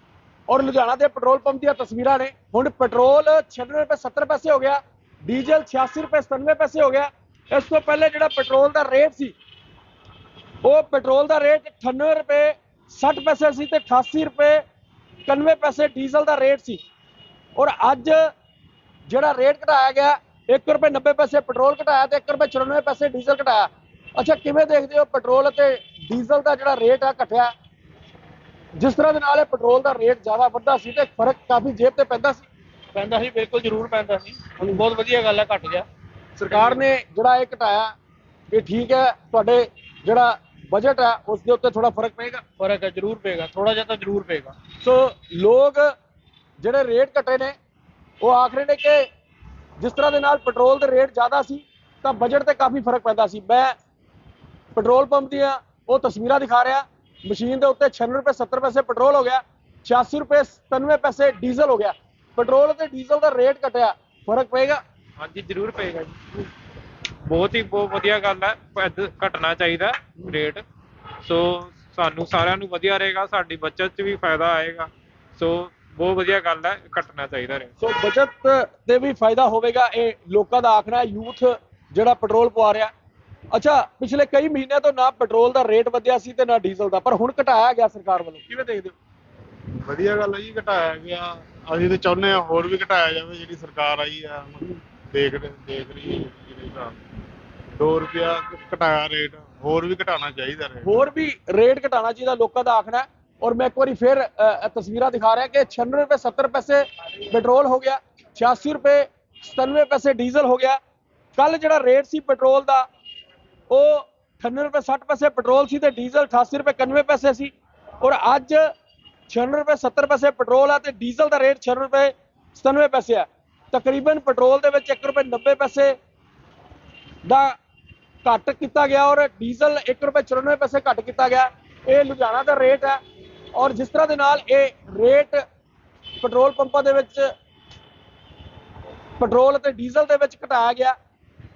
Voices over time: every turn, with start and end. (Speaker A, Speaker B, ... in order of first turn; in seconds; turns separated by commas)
Speaker A: 0.5-9.3, Speaker A: 10.6-14.6, Speaker A: 15.3-16.8, Speaker A: 17.6-18.3, Speaker A: 19.1-27.5, Speaker A: 28.8-32.5, Speaker B: 33.0-35.9, Speaker A: 36.4-37.9, Speaker B: 36.5-36.8, Speaker A: 38.5-42.4, Speaker B: 42.6-44.6, Speaker A: 44.8-45.9, Speaker A: 46.6-47.5, Speaker A: 48.2-49.0, Speaker A: 49.8-53.7, Speaker A: 54.8-64.8, Speaker C: 65.2-66.2, Speaker C: 67.3-70.6, Speaker C: 71.2-77.7, Speaker A: 77.8-82.9, Speaker A: 83.5-88.9, Speaker D: 89.8-97.0, Speaker D: 97.8-101.0, Speaker A: 100.8-110.8, Speaker A: 111.4-112.9, Speaker A: 113.7-118.7, Speaker A: 119.3-126.0, Speaker A: 127.2-127.6, Speaker A: 128.2-133.0, Speaker A: 133.6-135.4, Speaker A: 136.2-137.3, Speaker A: 139.2-140.9